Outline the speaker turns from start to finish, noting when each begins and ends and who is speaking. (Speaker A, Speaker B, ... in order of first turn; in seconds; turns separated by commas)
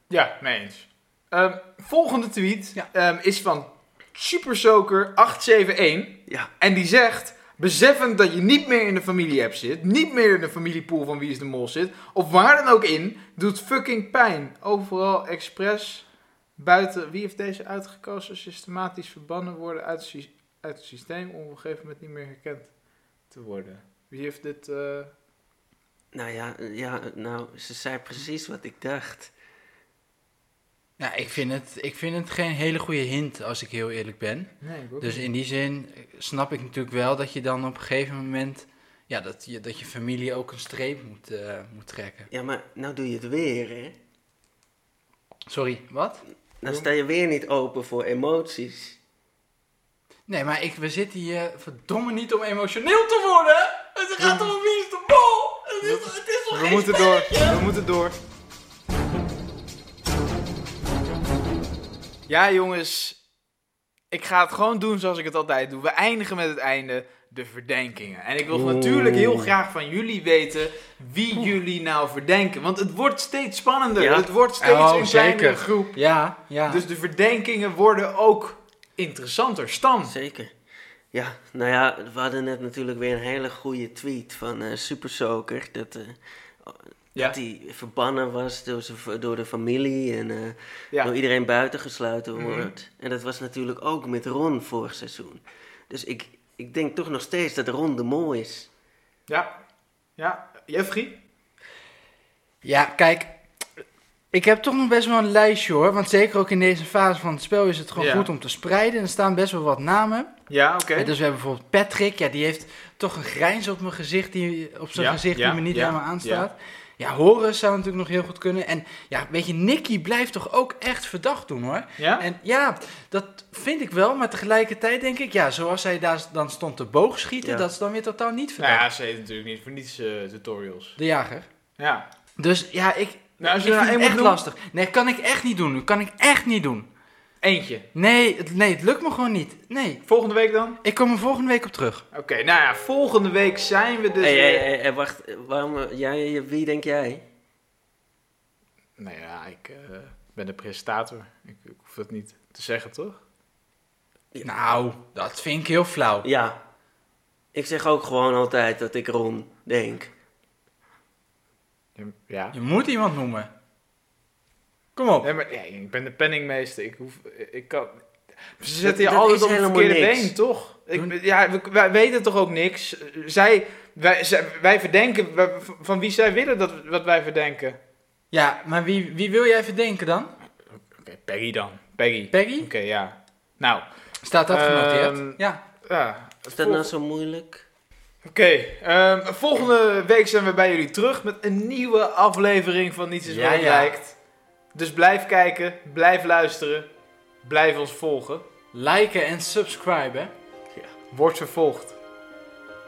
Speaker A: 0.1-16.1, Speaker A: 16.6-22.7, Speaker A: 23.3-25.1, Speaker B: 26.1-29.3, Speaker C: 31.0-42.3, Speaker A: 34.6-35.3, Speaker B: 42.3-44.0, Speaker C: 45.5-46.2, Speaker B: 46.6-49.0, Speaker C: 50.3-57.7, Speaker A: 54.2-54.5, Speaker A: 55.8-58.2, Speaker A: 62.3-63.2, Speaker A: 64.1-76.0, Speaker B: 68.5-69.5, Speaker B: 74.0-74.3, Speaker C: 74.6-76.8, Speaker A: 76.7-80.1, Speaker B: 80.0-80.5, Speaker B: 81.1-98.7, Speaker A: 92.4-92.7, Speaker A: 99.3-99.6, Speaker A: 100.2-101.2, Speaker C: 102.6-103.3, Speaker C: 104.3-110.3, Speaker A: 108.0-108.3, Speaker A: 110.5-111.1, Speaker C: 111.0-128.9, Speaker A: 115.0-116.5, Speaker A: 122.0-122.3, Speaker B: 127.4-127.7, Speaker A: 128.6-131.0, Speaker C: 131.0-131.5, Speaker A: 131.8-132.1, Speaker C: 132.4-136.9, Speaker A: 133.4-134.4, Speaker A: 137.4-137.9, Speaker C: 137.9-140.0, Speaker A: 140.1-140.8, Speaker C: 140.8-142.1, Speaker A: 142.1-144.7, Speaker B: 144.2-147.2, Speaker A: 149.0-153.2, Speaker C: 154.4-156.3, Speaker B: 156.2-156.6, Speaker B: 157.5-160.1, Speaker A: 162.0-162.6, Speaker C: 162.5-163.5, Speaker C: 165.0-165.3, Speaker A: 165.2-177.8, Speaker B: 168.8-170.4, Speaker C: 178.3-180.3, Speaker A: 180.9-183.9, Speaker C: 182.3-182.7, Speaker C: 184.2-185.6, Speaker A: 184.5-186.9, Speaker B: 186.5-187.7, Speaker A: 188.2-194.2, Speaker C: 193.2-193.9, Speaker A: 194.7-196.9, Speaker A: 197.4-198.5, Speaker C: 198.7-200.3, Speaker A: 201.1-201.9